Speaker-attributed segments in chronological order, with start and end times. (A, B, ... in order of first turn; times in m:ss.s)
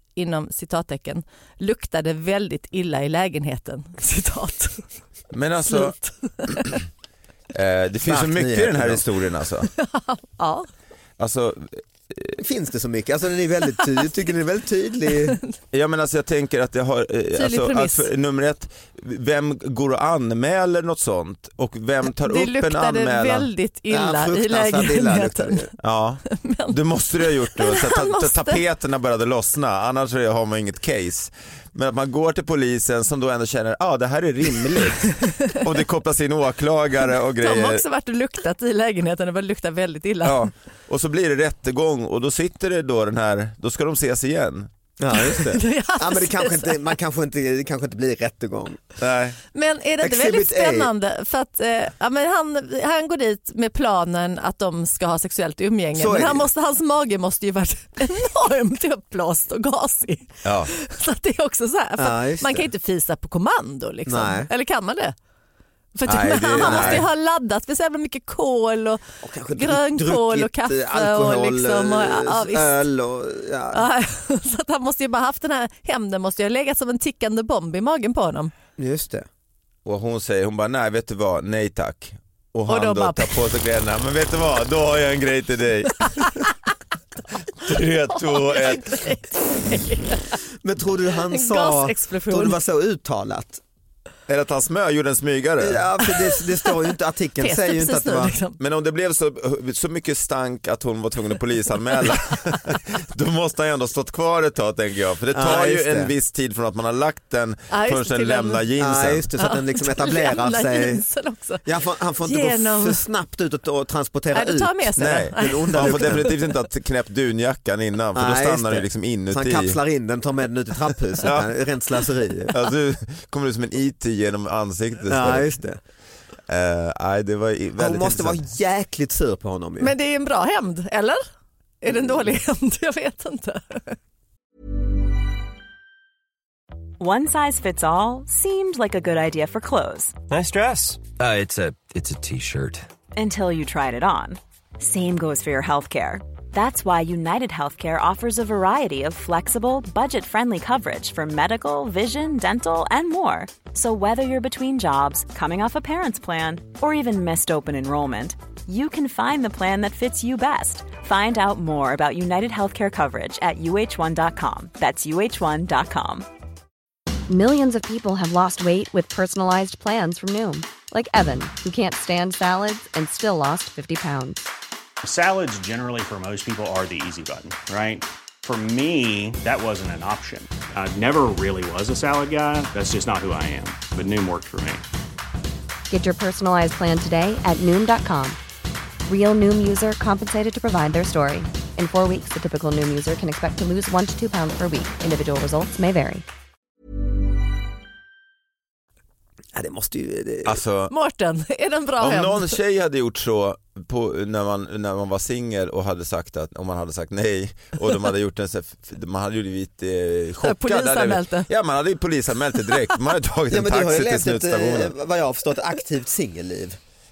0:00.2-0:04.8 A
0:05.3-0:05.9 B
0:05.7-0:06.5 A
0:06.5-0:06.8 B
0:07.5-0:09.7 B
0:08.0-0:09.0 C
0:09.8-0:10.7 A
0:11.2-0:12.4 B
0:12.4-0:15.4 C
0:15.7-0:23.5 B
0:17.3-0:18.1 A
0:22.0-0:25.7 A
0:23.9-0:25.7 C
0:25.8-0:37.8 B
0:26.3-0:26.8 A
0:27.5-0:28.6 A
0:35.2-0:35.5 A
0:37.4-0:40.4 A
0:40.2-0:44.7 B
0:45.0-0:48.9 C
0:45.1-0:46.9 A
0:49.0-0:49.4 B
0:49.5-1:05.1 A
0:50.0-0:50.9 C
0:55.9-0:56.5 C
1:00.4-1:00.7 B
1:02.0-1:02.7 C
1:04.0-1:04.5 C
1:05.9-1:09.0 A
1:06.1-1:07.0 B
1:06.5-1:07.0 C
1:09.2-1:13.8 C
1:09.5-1:12.8 A
1:13.7-1:18.5 A
1:18.8-1:19.3 C
1:19.8-1:26.5 B
1:22.7-1:23.4 A
1:27.6-1:29.0 B
1:28.1-1:30.3 A
1:30.6-1:33.6 C
1:31.3-1:32.6 A
1:34.3-1:35.8 B
1:35.6-1:38.3 C
1:37.4-1:38.6 A
1:38.6-1:49.3 B
1:45.3-1:46.1 C
1:47.7-1:48.7 A
1:48.8-1:51.0 C
1:49.4-1:51.6 A
1:51.6-1:56.3 C
1:52.2-1:53.0 A
1:54.3-1:56.5 A
1:55.0-1:59.8 B
1:58.1-2:02.6 C
2:01.2-2:01.5 B
2:02.5-2:05.5 B
2:05.1-2:05.8 C
2:06.5-2:08.4 B
2:07.8-2:09.9 C
2:09.8-2:11.2 A
2:11.8-2:14.0 A
2:17.0-2:20.2 D
2:20.3-2:22.8 E
2:23.1-2:46.3 D
2:47.3-2:54.5 F
2:55.0-3:04.8 G
3:05.9-3:08.4 F
3:09.0-3:16.2 F
3:19.5-3:20.6 C
3:20.4-3:20.9 B
3:20.9-3:22.5 A
3:22.0-3:34.9 B
3:30.4-3:31.5 A
3:33.5-3:36.8 C